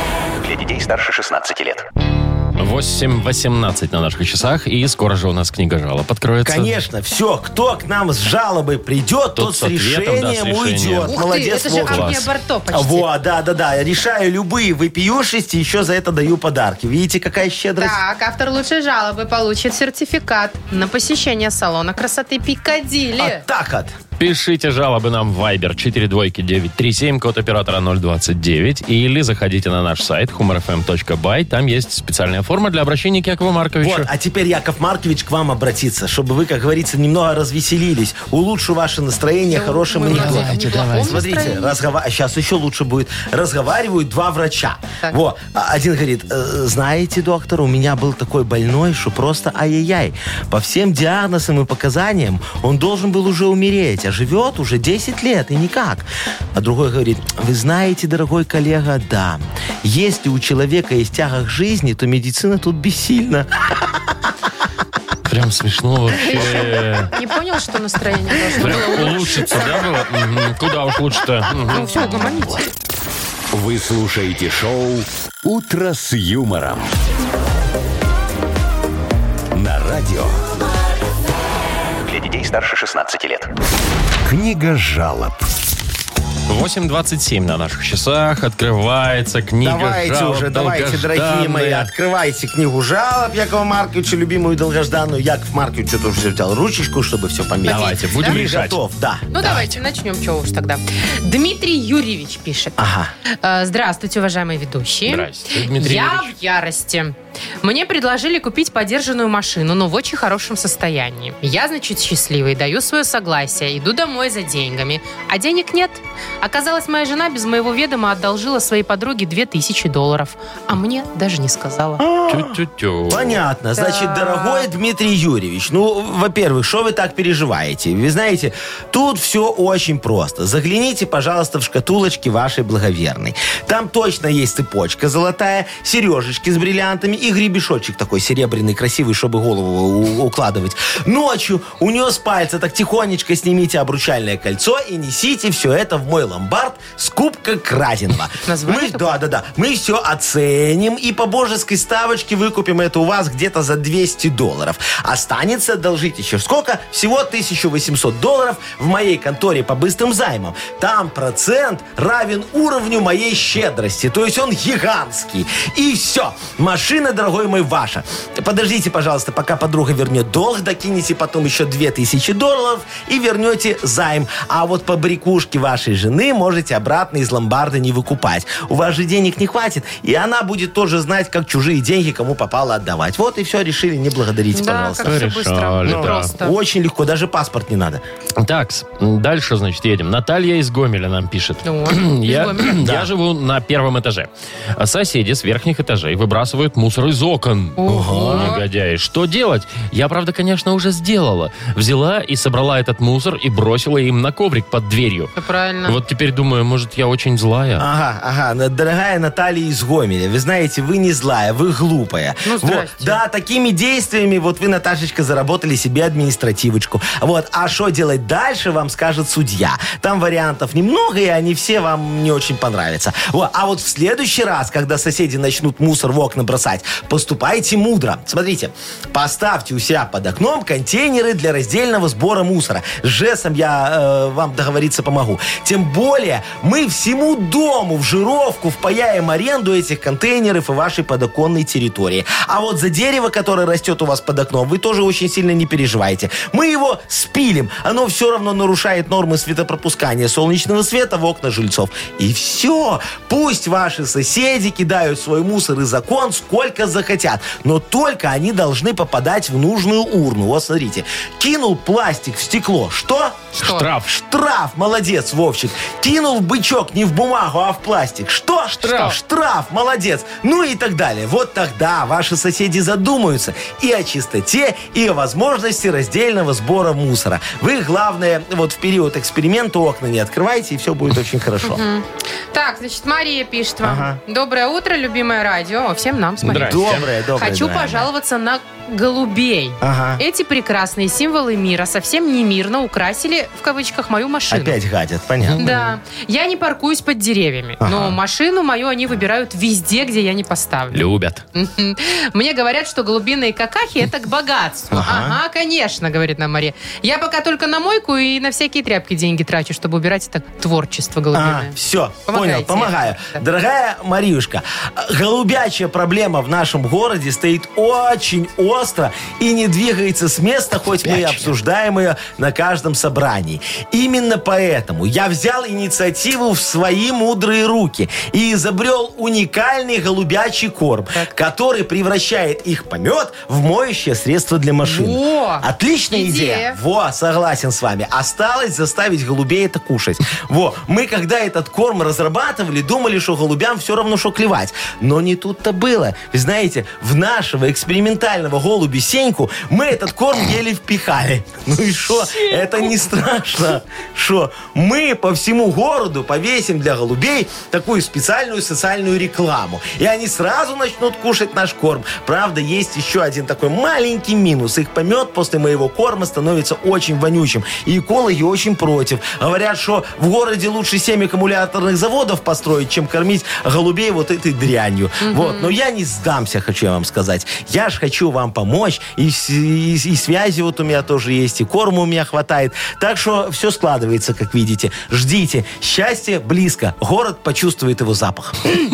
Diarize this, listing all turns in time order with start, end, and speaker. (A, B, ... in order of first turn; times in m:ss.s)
0:00.4-0:01.9 A
0:02.6-0:06.8 B
0:06.4-0:18.0 C
0:09.3-0:11.2 B
0:11.1-0:13.1 D
0:11.7-0:12.2 B
0:17.8-0:23.4 D
0:23.2-0:24.0 C
0:24.2-0:34.1 B
0:33.8-1:04.1 C
0:39.5-0:41.8 D
0:40.1-0:41.2 B
1:05.3-1:07.1 B
1:06.2-1:09.8 D
1:08.6-1:11.9 B
1:11.6-1:12.7 D
1:13.5-1:16.9 E
1:19.5-1:20.4 E
1:22.0-1:23.5 A
1:24.3-1:25.5 E
1:26.5-1:31.9 B
1:29.6-1:39.4 C
1:37.6-1:38.8 B
1:37.6-1:38.4 D
1:39.3-1:42.8 D
1:39.4-1:39.7 B
1:42.8-1:43.1 C
1:43.3-2:02.0 D
1:45.1-1:46.3 B
2:02.0-3:05.2 C
2:02.3-2:03.4 B
2:03.8-2:04.7 D
2:28.5-2:29.2 D
3:04.5-3:06.6 D
3:05.0-3:06.3 B
3:05.8-3:08.0 C
3:08.4-3:25.3 B
3:11.6-3:12.8 D
3:12.8-3:13.1 C
3:17.8-3:18.6 D
3:17.9-3:18.6 C
3:25.4-3:26.0 D
3:25.9-3:27.8 B
3:27.8-4:41.8 C
3:32.4-3:33.2 D
4:23.6-4:23.8 D
4:23.6-4:24.1 B
4:28.8-4:29.2 B
4:41.6-4:54.8 D
4:43.8-4:44.2 C
4:46.4-4:47.1 B
4:46.5-4:48.1 C
4:49.8-4:50.2 C
4:54.5-4:55.8 C
4:55.4-4:55.7 B
4:55.6-5:01.0 D
4:57.8-4:58.2 C
5:00.9-5:01.4 B
5:01.6-5:11.8 D
5:04.9-5:05.4 C
5:11.3-6:28.8 C
5:12.3-5:13.4 D
5:21.0-5:21.5 B
5:34.8-5:36.8 D
6:15.2-6:15.7 D